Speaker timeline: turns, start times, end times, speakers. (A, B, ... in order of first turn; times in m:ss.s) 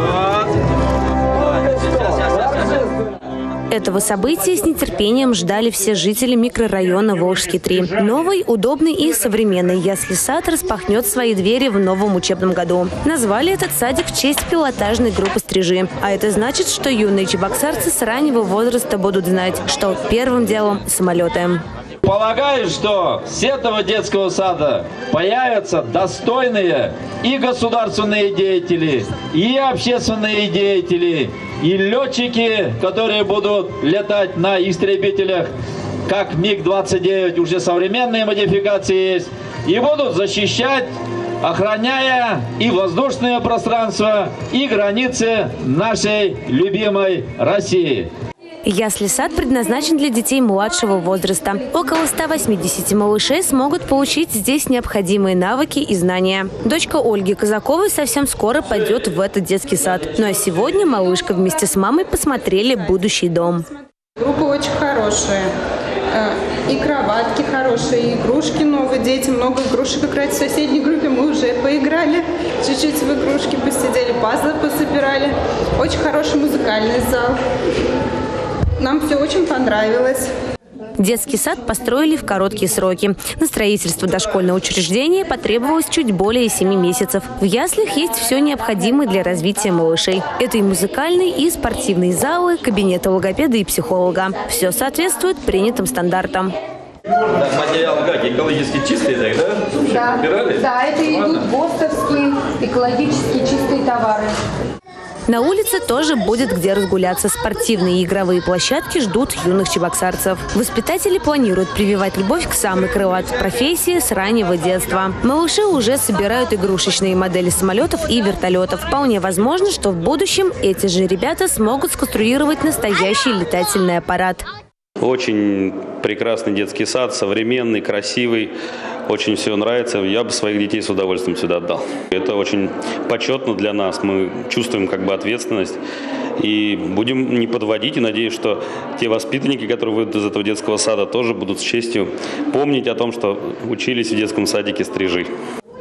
0:03.7-0:21.6 A
0:22.0-0:35.5 B
0:36.0-0:48.1 B
0:48.6-1:03.6 A
1:04.2-1:05.5 C
1:06.1-1:17.4 C
1:18.8-1:20.3 C
1:21.0-1:36.5 A
1:37.4-1:40.6 D
1:39.9-1:44.4 E
1:45.3-2:04.4 A
2:05.0-2:08.5 F
2:09.1-2:15.8 F
2:16.4-2:25.3 F